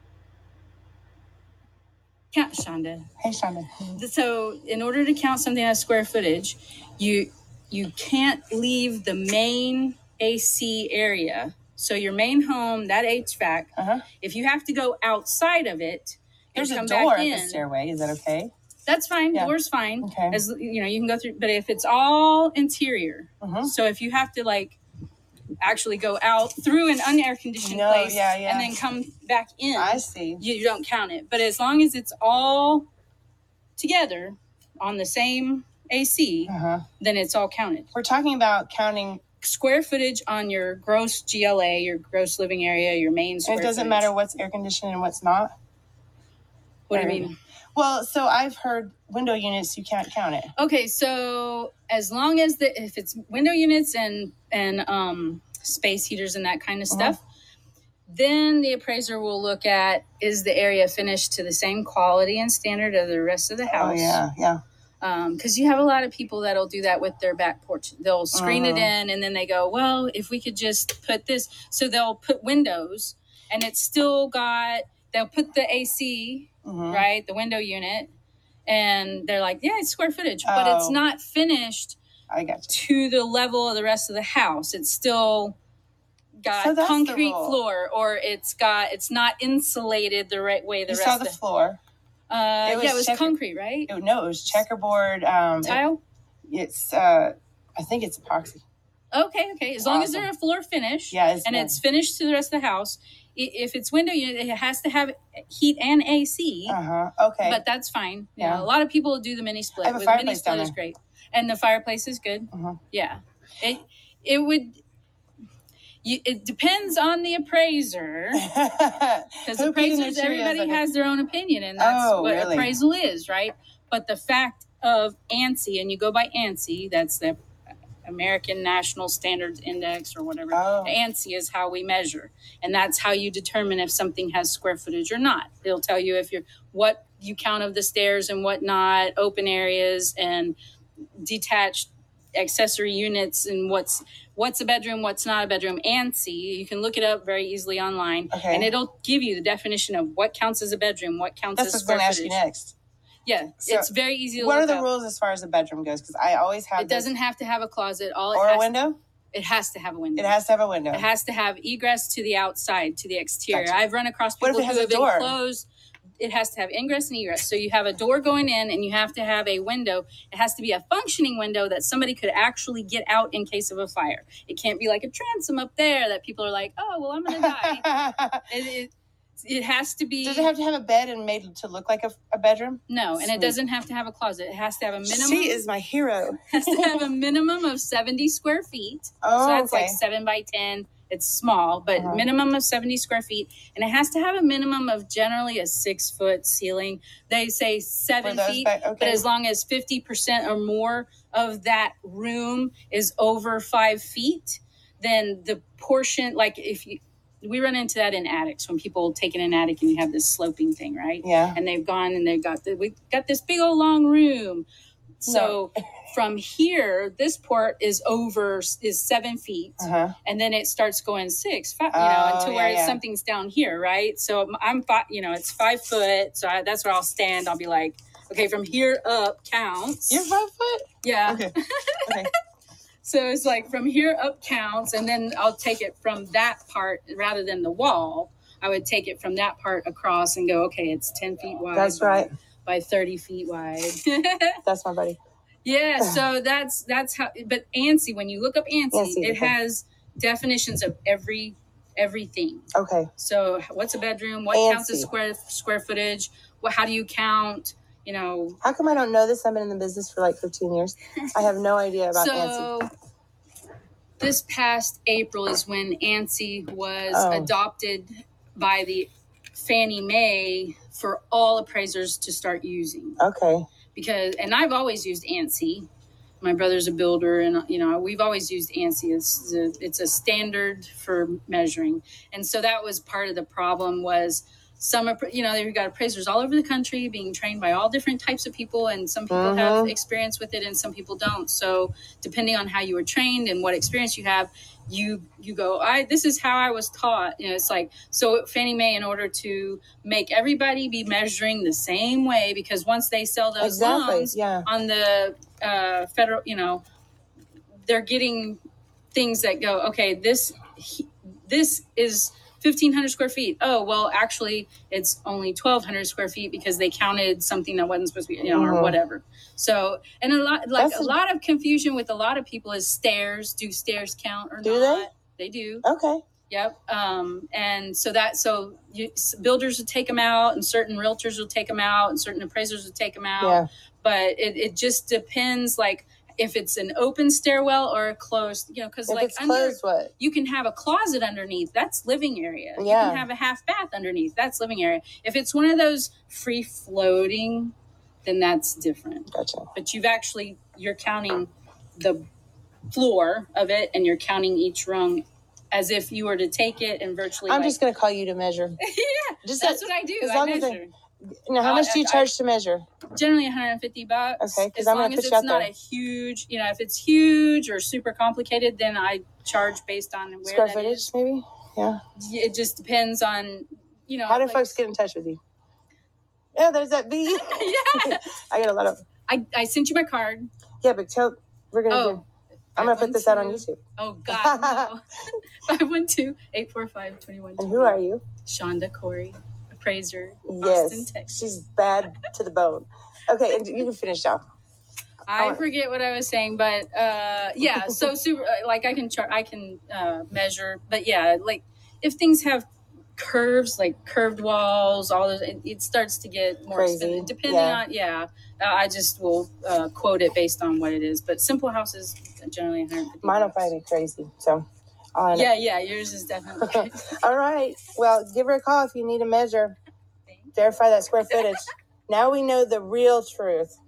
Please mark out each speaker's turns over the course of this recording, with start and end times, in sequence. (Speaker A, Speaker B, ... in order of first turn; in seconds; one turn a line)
Speaker A: 2.3-3.1
Speaker B: 3.2-4.0
Speaker A: 4.0-17.6
Speaker B: 13.8-14.1
Speaker B: 16.6-18.5
Speaker A: 18.9-24.8
Speaker B: 19.3-20.4
Speaker B: 23.4-23.7
Speaker A: 25.6-32.9
Speaker B: 27.6-28.8
Speaker B: 29.8-30.4
Speaker A: 33.8-37.9
Speaker B: 36.5-36.9
Speaker B: 37.9-39.2
Speaker A: 39.4-44.1
Speaker B: 43.5-45.5
Speaker A: 46.9-47.4
Speaker B: 46.9-50.5
Speaker A: 50.6-57.2
Speaker B: 56.9-57.2
Speaker A: 58.1-64.2
Speaker B: 63.7-64.6
Speaker A: 65.0-78.1
Speaker B: 68.3-68.9
Speaker B: 76.7-77.1
Speaker A: 78.7-82.0
Speaker B: 80.5-81.0
Speaker B: 82.3-82.8
Speaker A: 82.7-85.6
Speaker A: 86.4-91.4
Speaker B: 86.5-87.6
Speaker B: 90.9-91.8
Speaker A: 92.3-93.9
Speaker B: 92.6-93.3
Speaker B: 93.9-95.8
Speaker A: 95.6-96.0
Speaker B: 96.5-98.6
Speaker A: 99.1-106.8
Speaker B: 99.8-100.3
Speaker B: 101.1-101.8
Speaker B: 106.7-107.6
Speaker A: 107.4-114.8
Speaker B: 108.4-108.7
Speaker B: 109.8-110.8
Speaker B: 112.5-112.8
Speaker A: 116.0-118.4
Speaker B: 118.3-120.8
Speaker A: 119.5-127.4
Speaker B: 121.8-122.7
Speaker A: 128.0-140.6
Speaker B: 130.5-131.0
Speaker A: 141.2-152.4
Speaker B: 148.3-148.7
Speaker B: 151.6-152.8
Speaker A: 153.2-154.9
Speaker B: 153.6-157.1
Speaker A: 156.8-158.7
Speaker B: 158.3-159.0
Speaker A: 159.3-160.3
Speaker B: 160.2-161.1
Speaker A: 160.9-165.7
Speaker B: 164.4-165.4
Speaker A: 166.2-180.5
Speaker B: 177.3-178.4
Speaker B: 180.2-183.6
Speaker A: 182.9-185.6
Speaker B: 185.1-187.1
Speaker A: 186.5-214.7
Speaker B: 189.2-190.0
Speaker B: 192.0-192.2
Speaker B: 198.2-199.3
Speaker B: 211.2-211.6
Speaker A: 215.2-230.3
Speaker B: 215.3-215.6
Speaker B: 219.8-220.2
Speaker B: 221.9-223.0
Speaker B: 230.1-231.5
Speaker A: 231.0-232.3
Speaker A: 233.0-244.6
Speaker B: 241.7-242.3
Speaker B: 244.7-245.2
Speaker A: 245.6-258.6
Speaker B: 248.9-249.5
Speaker B: 252.7-253.1
Speaker B: 254.5-255.1
Speaker B: 258.6-262.7
Speaker A: 262.1-262.9
Speaker A: 264.2-273.2
Speaker B: 267.1-267.5
Speaker B: 273.2-273.6
Speaker A: 273.9-275.9
Speaker A: 276.4-306.8
Speaker B: 289.3-289.9
Speaker B: 303.6-304.7
Speaker A: 307.9-308.6
Speaker A: 309.1-325.9
Speaker B: 318.4-319.0
Speaker B: 320.8-321.1
Speaker B: 324.6-325.1
Speaker B: 325.8-326.2
Speaker A: 326.5-347.7
Speaker B: 333.4-333.7
Speaker B: 339.1-340.1
Speaker B: 342.8-343.3
Speaker A: 348.2-352.2
Speaker B: 349.3-349.7
Speaker A: 352.9-357.8
Speaker B: 357.5-358.8
Speaker A: 358.8-360.9
Speaker B: 359.4-360.8
Speaker B: 361.5-362.9
Speaker A: 361.6-362.3
Speaker A: 363.1-371.1
Speaker B: 364.4-365.7
Speaker B: 370.4-372.0
Speaker A: 372.1-374.8
Speaker B: 374.3-375.4
Speaker B: 376.6-379.0
Speaker A: 377.3-378.4
Speaker A: 379.3-380.5
Speaker B: 380.8-382.2
Speaker A: 381.9-382.2
Speaker A: 382.8-385.1
Speaker B: 382.8-384.9
Speaker A: 385.6-391.4
Speaker B: 387.6-388.2
Speaker B: 390.5-394.4
Speaker A: 395.3-413.8
Speaker B: 395.4-395.6
Speaker B: 406.7-407.8
Speaker B: 413.2-415.5
Speaker A: 415.3-417.2
Speaker B: 416.6-419.8
Speaker A: 420.3-420.5
Speaker B: 420.6-423.8
Speaker A: 421.3-421.6